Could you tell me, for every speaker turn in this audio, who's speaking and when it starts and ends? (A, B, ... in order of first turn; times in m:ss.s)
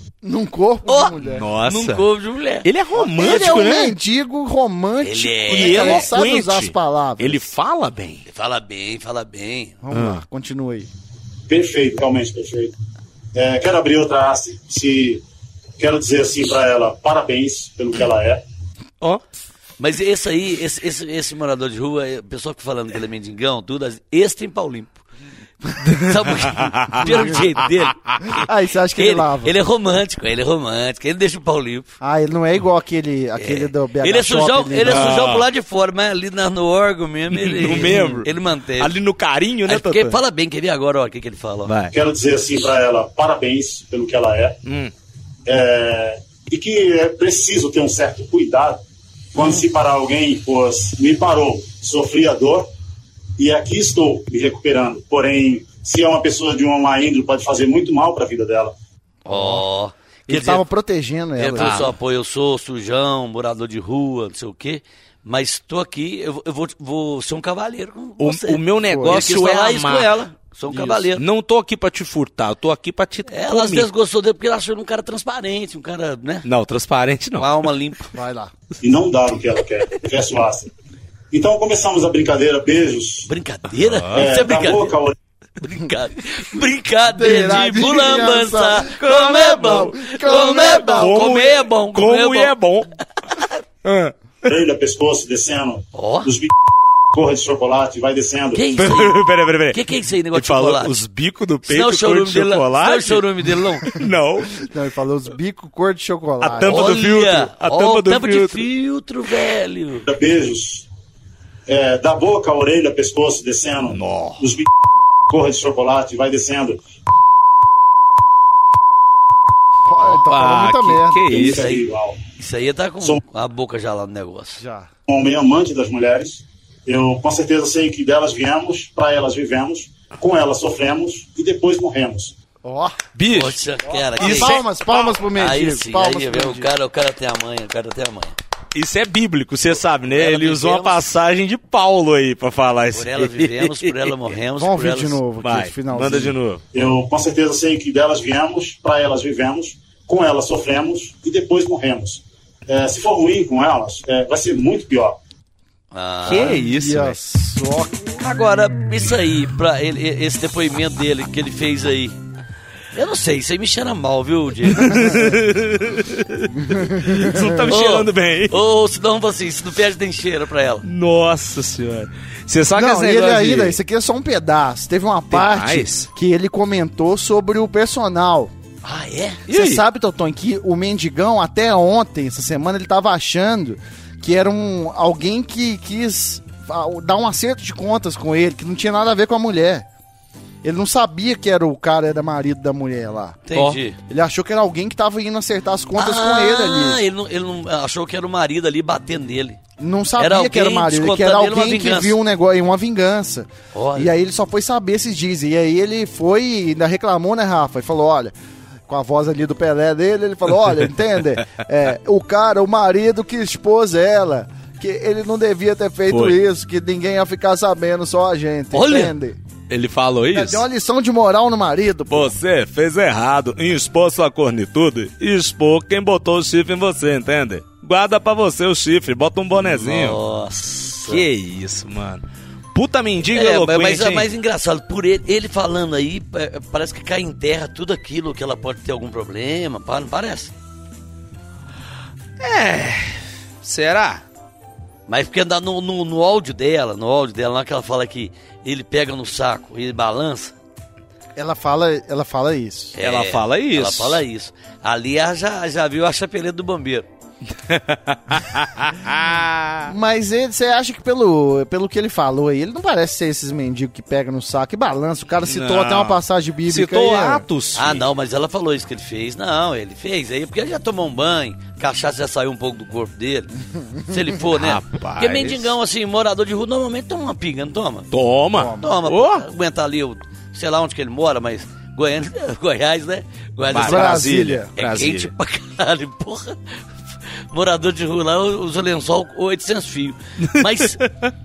0:00.2-0:01.5 A
0:00.9-0:02.7 B
0:01.2-0:02.1 C
0:02.6-0:03.9 C
0:03.0-0:07.5 A
0:05.0-0:06.1 B
0:05.5-0:08.2 C
0:08.2-0:09.8 B
0:09.8-0:10.9 A
0:09.9-0:10.2 C
0:11.5-0:12.7 D
0:13.3-0:15.2 D
0:15.8-0:18.4 D
0:19.8-0:25.0 B
0:25.8-0:28.0 B
0:25.8-0:27.6 C
0:27.0-0:27.5 A
0:28.3-0:29.5 A
0:28.9-0:31.9 B
0:32.0-0:35.2 A
0:33.4-0:39.0 B
0:34.8-0:35.5 C
0:37.3-0:40.2 C
0:37.9-0:38.2 A
0:39.6-0:41.7 B
0:41.7-0:41.9 C
0:41.9-0:44.6 D
0:44.6-0:44.9 C
0:45.4-0:48.8 D
0:49.3-0:52.6 D
0:53.4-0:58.7 D
0:59.2-1:00.6 B
0:59.3-0:59.6 A
1:00.3-1:01.9 A
1:01.4-1:11.2 B
1:01.6-1:01.9 C
1:08.2-1:10.1 C
1:08.8-1:09.3 A
1:10.7-1:13.9 C
1:13.3-1:16.5 B
1:16.4-1:17.6 C
1:17.4-1:18.1 B
1:18.1-1:18.5 A
1:18.8-1:20.7 D
1:21.3-1:23.3 D
1:23.3-1:25.0 B
1:23.8-1:24.2 C
1:24.1-1:25.1 D
1:25.6-1:32.5 B
1:27.1-1:31.3 A
1:28.8-1:32.9 C
1:33.8-1:34.1 C
1:34.4-1:36.5 D
1:35.9-1:36.3 B
1:37.1-1:38.7 D
1:38.5-1:41.0 B
1:38.7-1:44.6 C
1:41.6-1:43.9 B
1:44.6-1:46.9 A
1:46.4-1:48.6 C
1:46.6-1:50.1 B
1:50.0-1:50.8 D
1:51.7-1:54.7 D
1:53.9-1:54.4 C
1:55.3-1:56.8 D
1:59.8-2:01.3 A
2:00.1-2:01.7 C
2:01.3-2:02.2 D
2:01.3-2:01.8 B
2:02.4-2:04.6 B
2:04.6-2:04.9 A
2:05.1-2:12.3 D
2:12.6-2:13.0 A
2:13.1-2:13.6 C
2:13.3-2:14.6 B
2:14.2-2:14.6 C
2:14.2-2:16.7 A
2:15.3-2:18.4 B
2:18.7-2:24.3 C
2:20.1-2:21.0 B
2:22.9-2:25.2 B
2:24.6-2:26.4 A
2:25.4-2:26.6 C
2:26.7-2:35.2 D
2:35.9-2:36.6 B
2:36.2-2:37.2 C
2:36.3-2:38.1 A
2:38.2-2:42.2 B
2:42.9-2:45.1 B
2:44.7-2:48.6 C
2:46.6-2:47.7 A
2:47.7-2:50.9 B
2:50.8-2:53.8 C
2:52.7-2:58.5 A
2:55.3-2:56.1 C
2:58.8-2:59.4 B
2:59.5-2:59.8 C
2:59.5-3:09.8 A
3:10.6-3:13.4 A
3:13.5-3:14.0 B
3:14.1-3:17.0 A
3:16.0-3:19.6 B
3:19.8-3:28.3 A
3:20.2-3:22.2 B
3:23.7-3:24.1 B
3:28.9-3:39.4 A
3:36.1-3:36.4 C
3:38.7-3:39.1 B
3:39.7-3:40.6 C
3:40.3-3:42.4 A
3:42.1-3:50.2 C
3:49.6-3:51.2 B
3:51.1-3:54.3 C
3:53.3-4:00.5 B
4:02.4-4:04.2 C
4:05.1-4:10.5 B
4:11.4-4:13.0 A
4:13.0-4:17.0 B
4:13.0-4:14.2 C
4:17.6-4:19.9 C
4:19.8-4:27.4 A
4:25.4-4:28.0 C
4:27.7-4:38.1 B
4:34.5-4:35.7 C
4:38.1-4:39.4 C
4:38.5-4:38.9 A
4:38.8-4:46.6 B
4:43.7-4:45.3 C
4:43.8-4:44.7 A
4:47.5-4:51.0 B
4:50.5-4:51.3 C